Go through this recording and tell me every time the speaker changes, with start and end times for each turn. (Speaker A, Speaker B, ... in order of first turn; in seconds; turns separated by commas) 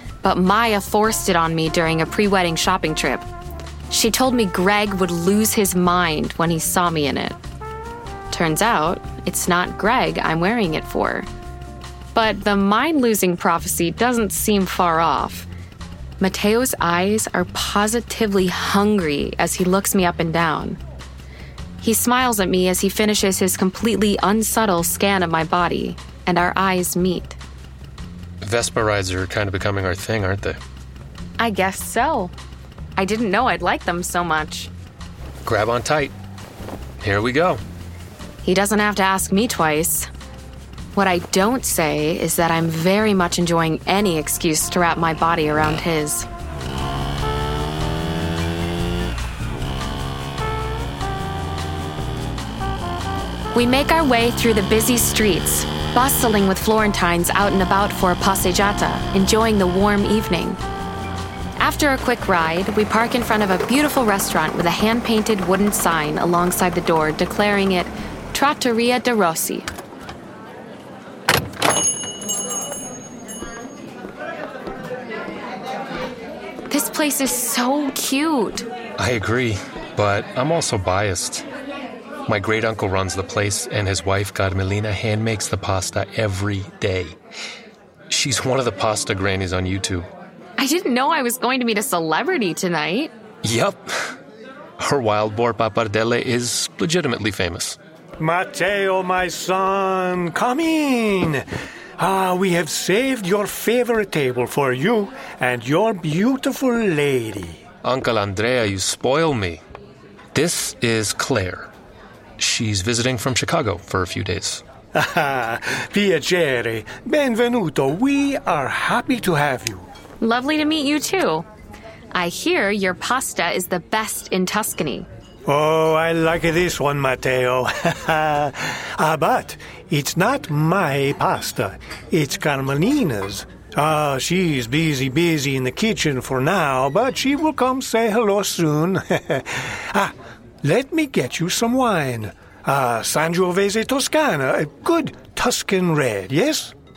Speaker A: 0.2-3.3, Speaker A: 3.9-7.4, Speaker A: 8.3-11.3, Speaker A: 12.2-15.5, Speaker A: 16.2-20.8, Speaker A: 21.8-27.4, Speaker B: 28.4-30.6, Speaker A: 31.4-32.3, Speaker A: 33.0-34.7, Speaker B: 35.5-36.1, Speaker B: 37.0-37.6, Speaker A: 38.4-40.1, Speaker A: 41.0-46.3, Speaker A: 53.5-60.6, Speaker A: 61.6-69.7, Speaker A: 76.7-78.7, Speaker B: 79.0-81.5, Speaker B: 82.3-87.2, Speaker B: 88.1-90.1, Speaker A: 90.6-93.1, Speaker B: 93.4-94.2, Speaker B: 94.8-97.8, Speaker C: 98.2-101.5, Speaker C: 102.0-107.6, Speaker B: 107.8-109.6, Speaker B: 110.3-111.7, Speaker B: 112.4-114.6, Speaker C: 115.0-119.9, Speaker A: 120.2-121.5, Speaker A: 122.1-125.1, Speaker C: 125.5-146.7